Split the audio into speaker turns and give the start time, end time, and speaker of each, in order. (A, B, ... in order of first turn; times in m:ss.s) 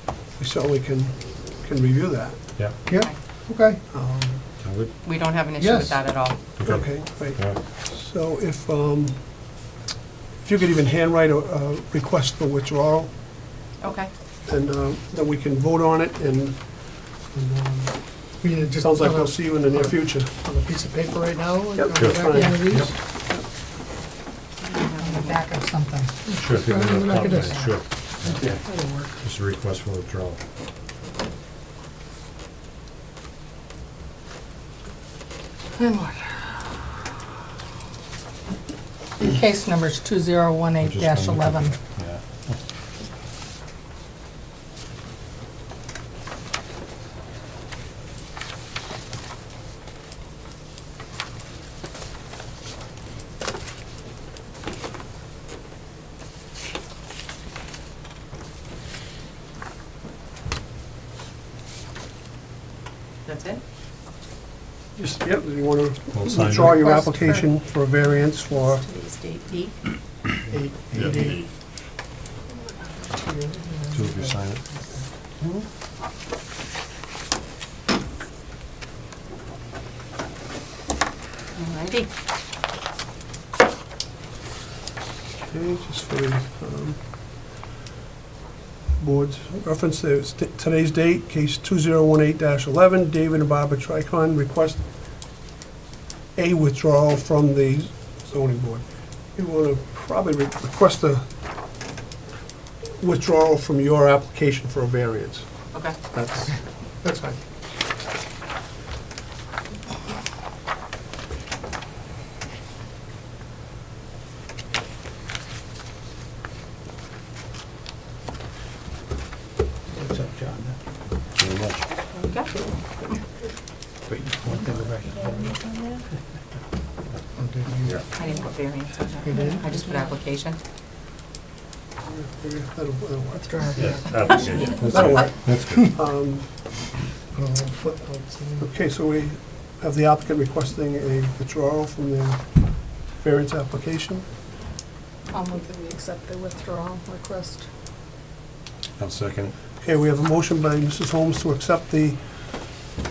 0:00.4-0:02.8 A
0:02.6-0:02.8 B
0:02.8-0:03.8 C
0:03.9-0:04.4 A
0:04.6-0:05.1 B
0:05.0-0:06.4 D
0:05.6-0:06.3 C
0:06.6-0:07.6 B
0:06.6-0:09.2 A
0:10.4-0:13.1 A
0:13.8-0:14.1 D
0:14.5-0:20.3 A
0:18.4-0:22.7 C
0:21.8-0:22.6 A
0:22.0-0:23.0 B
0:22.3-0:23.0 E
0:24.6-0:25.5 D
0:25.0-0:26.1 E
0:26.2-0:27.6 C
0:26.4-0:28.5 B
0:27.2-0:27.8 E
0:28.4-0:29.1 C
0:29.2-0:30.4 B
0:35.8-0:36.2 C
0:39.2-0:41.8 E
0:40.8-0:42.6 B
1:03.2-1:03.6 D
1:05.0-1:08.8 A
1:06.1-1:07.4 B
1:06.7-1:07.4 E
1:08.4-1:09.8 D
1:10.5-1:11.4 C
1:10.9-1:11.5 B
1:13.6-1:14.1 C
1:13.9-1:14.7 B
1:21.6-1:22.1 D
1:25.4-1:27.0 A
1:29.0-1:34.8 A
1:36.4-1:41.2 A
1:43.0-1:47.4 A
1:45.7-1:46.0 D
1:59.9-2:00.8 F
2:01.4-2:01.9 B
2:02.1-2:02.7 D
2:04.1-2:05.5 F
2:05.1-2:06.0 D
2:07.4-2:07.7 C
2:08.1-2:10.6 D
2:09.2-2:09.6 C
2:12.1-2:13.6 A
2:13.5-2:14.1 E
2:13.5-2:14.0 C
2:13.8-2:16.0 B
2:14.6-2:16.5 A
2:17.3-2:18.7 C
2:18.6-2:24.2 A
2:25.3-2:27.7 E
2:29.0-2:29.5 B
2:29.8-2:32.2 A